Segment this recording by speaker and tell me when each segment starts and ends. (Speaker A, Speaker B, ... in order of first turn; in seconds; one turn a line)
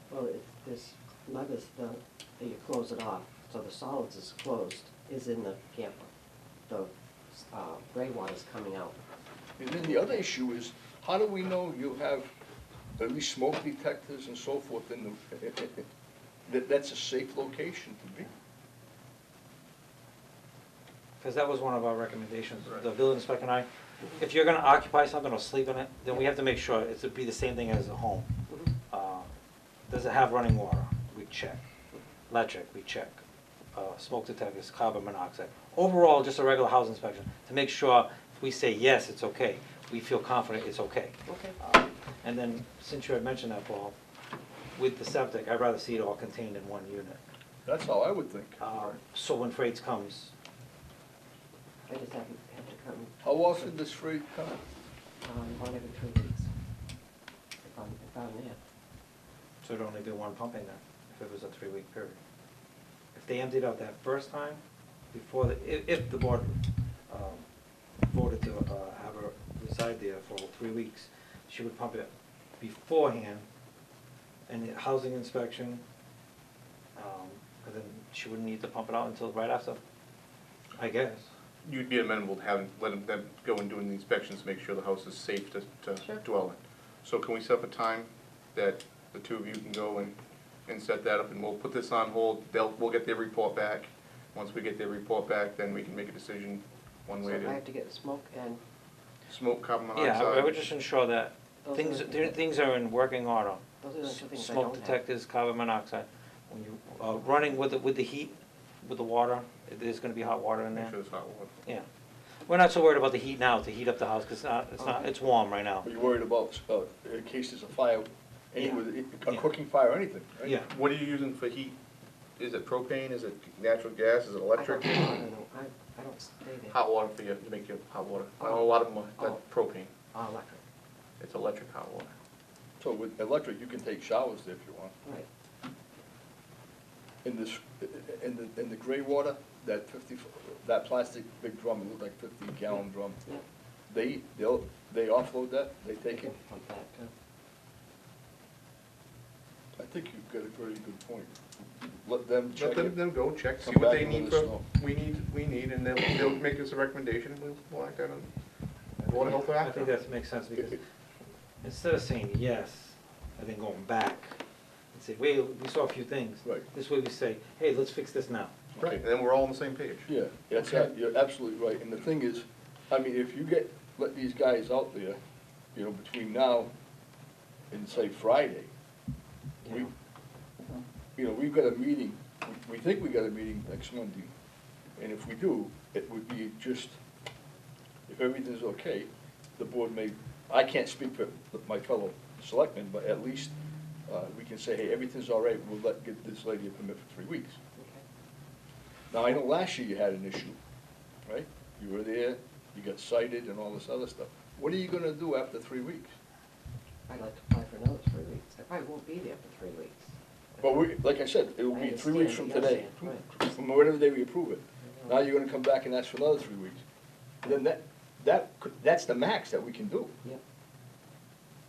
Speaker A: 0.1-6.1
Speaker A: 6.7-9.0
Speaker B: 9.6-12.3
Speaker A: 9.8-10.2
Speaker B: 13.0-15.8
Speaker B: 16.5-18.3
Speaker C: 21.2-23.7
Speaker C: 24.2-28.3
Speaker C: 28.9-29.3
Speaker C: 29.9-31.6
Speaker C: 32.3-33.2
Speaker C: 33.7-43.9
Speaker A: 41.3-41.5
Speaker C: 44.7-47.2
Speaker B: 47.6-48.9
Speaker C: 48.6-50.3
Speaker A: 51.9-53.4
Speaker B: 53.2-54.6
Speaker A: 55.2-56.5
Speaker A: 57.6-58.6
Speaker C: 59.6-62.2
Speaker C: 63.1-64.6
Speaker C: 65.1-66.6
Speaker C: 67.1-67.4
Speaker C: 68.0-73.5
Speaker C: 74.5-75.8
Speaker C: 77.0-79.8
Speaker C: 80.8-81.3
Speaker D: 81.6-97.7
Speaker A: 97.3-98.6
Speaker D: 99.3-100.6
Speaker C: 99.9-110.9
Speaker A: 101.6-102.4
Speaker A: 103.8-105.0
Speaker D: 110.7-111.5
Speaker C: 112.5-115.9
Speaker A: 114.8-115.1
Speaker B: 115.8-120.6
Speaker C: 120.4-120.7
Speaker D: 120.7-121.8
Speaker D: 122.4-125.3
Speaker A: 124.5-126.7
Speaker D: 126.6-129.9
Speaker A: 130.1-130.6
Speaker D: 131.2-132.1
Speaker B: 132.8-134.9
Speaker B: 137.2-143.2
Speaker B: 143.9-146.4
Speaker A: 146.0-147.1
Speaker B: 149.8-153.0
Speaker D: 152.5-158.3
Speaker B: 153.6-154.6
Speaker D: 159.0-160.0
Speaker C: 159.4-160.8
Speaker C: 161.6-164.4
Speaker C: 164.9-168.6
Speaker D: 168.9-170.1
Speaker B: 170.1-175.2
Speaker B: 175.7-176.7
Speaker B: 177.7-178.7
Speaker B: 181.2-184.3
Speaker B: 185.0-187.0
Speaker B: 188.1-193.5
Speaker B: 194.1-197.6
Speaker A: 197.8-198.0
Speaker B: 199.1-200.6
Speaker B: 201.3-206.1
Speaker A: 207.1-210.1
Speaker B: 210.6-216.8
Speaker A: 211.7-213.2
Speaker B: 217.4-220.2